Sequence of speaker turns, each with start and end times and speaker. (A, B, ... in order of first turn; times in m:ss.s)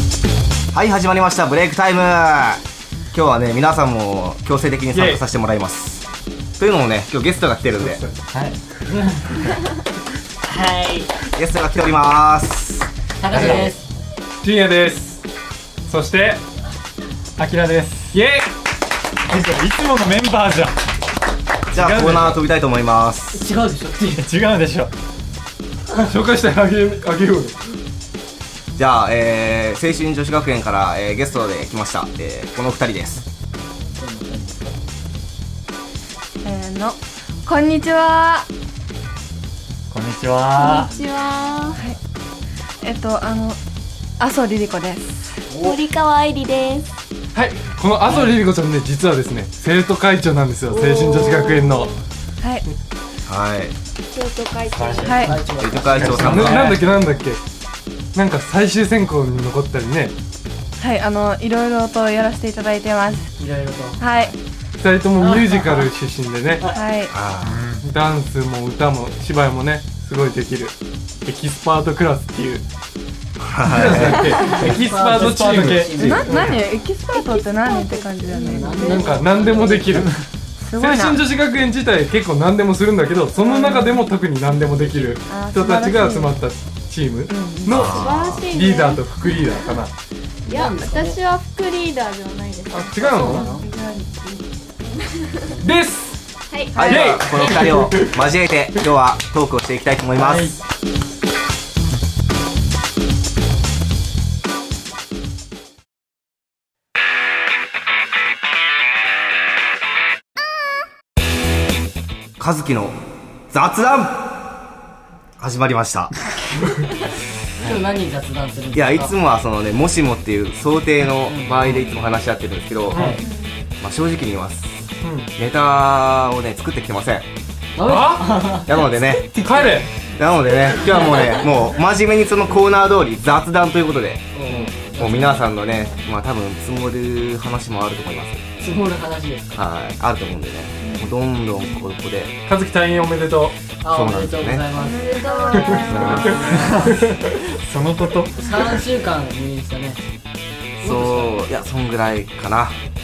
0:00.7-0:06.1 A
0:04.9-0:05.2 B
0:06.6-0:08.0 A
0:07.8-0:08.2 B
0:08.3-0:08.6 C
0:08.9-0:09.5 D
0:10.4-0:11.1 D
0:11.3-0:13.7 A
0:13.2-0:13.9 D
0:13.3-0:13.7 C
0:14.4-0:15.2 B
0:15.9-0:16.4 B
0:17.4-0:18.1 C
0:18.1-0:18.5 B
0:19.3-0:20.7 C
0:21.7-0:23.5 A
0:21.7-0:22.4 C
0:23.3-0:24.3 D
0:24.2-0:24.9 C
0:26.0-0:27.8 B
0:28.8-0:33.2 A
0:34.0-0:34.8 D
0:36.4-0:38.5 E
0:39.9-0:40.9 C
0:40.5-0:41.8 F
0:40.7-0:41.8 D
0:42.8-0:43.6 E
0:44.2-0:45.4 E
0:45.5-0:45.8 D
0:45.6-0:46.9 F
0:47.3-0:51.9 B
0:48.1-0:48.4 D
0:50.7-0:52.0 F
0:53.3-0:53.8 A
0:54.1-0:55.4 F
0:54.7-0:55.1 C
0:54.9-0:56.6 D
0:55.0-0:55.4 E
0:55.6-0:56.7 A
0:55.8-0:57.0 C
0:56.2-0:57.4 B
0:58.1-1:00.2 B
1:00.8-1:03.3 E
1:03.4-1:04.0 D
1:04.0-1:04.4 E
1:04.1-1:04.4 A
1:04.8-1:06.7 B
1:05.2-1:05.9 D
1:06.7-1:07.2 E
1:07.1-1:07.6 A
1:07.4-1:07.9 C
1:07.8-1:12.6 B
1:13.4-1:14.4 A
1:13.6-1:16.6 B
1:14.1-1:14.6 F
1:14.4-1:16.4 D
1:14.9-1:16.4 C
1:16.0-1:19.0 E
1:17.1-1:19.2 F
1:18.3-1:20.2 D
1:18.9-1:20.2 B
1:20.0-1:20.2 C
1:20.6-1:21.2 E
1:20.8-1:29.9 B
1:23.4-1:24.1 E
1:25.2-1:26.4 E
1:27.3-1:27.9 E
1:27.7-1:28.5 A
1:28.0-1:29.6 F
1:30.5-1:31.2 D
1:30.5-1:33.3 F
1:32.7-1:33.5 B
1:33.0-1:33.7 D
1:33.1-1:34.6 E
1:34.8-1:35.5 F
1:35.6-1:36.2 B
1:36.5-1:37.0 F
1:36.7-1:40.6 A
1:36.9-1:38.2 B
1:40.2-1:40.6 C
1:52.4-1:53.0 A
1:53.5-1:54.4 A
1:55.4-1:56.2 A
1:57.6-1:59.2 D
1:58.7-2:03.1 A
2:01.3-2:01.9 D
2:02.9-2:03.2 B
2:03.8-2:07.3 A
2:05.0-2:05.3 B
2:07.8-2:09.8 D
2:07.8-2:08.7 B
2:08.6-2:09.3 A
2:09.2-2:09.9 B
2:10.2-2:14.3 A
2:10.8-2:11.2 D
2:14.3-2:15.6 D
2:14.5-2:14.8 B
2:15.0-2:18.5 A
2:15.7-2:16.1 F
2:18.6-2:19.6 D
2:19.5-2:22.4 A
2:20.8-2:21.1 E
2:22.5-2:23.6 B
2:23.8-2:26.4 D
2:23.9-2:24.6 A
2:24.8-2:27.0 F
2:24.8-2:26.4 E
2:25.8-2:26.8 A
2:26.5-2:27.0 C
2:27.0-2:27.3 B
2:27.6-2:28.4 C
2:28.4-2:30.0 D
2:30.8-2:31.4 D
2:30.8-2:32.8 A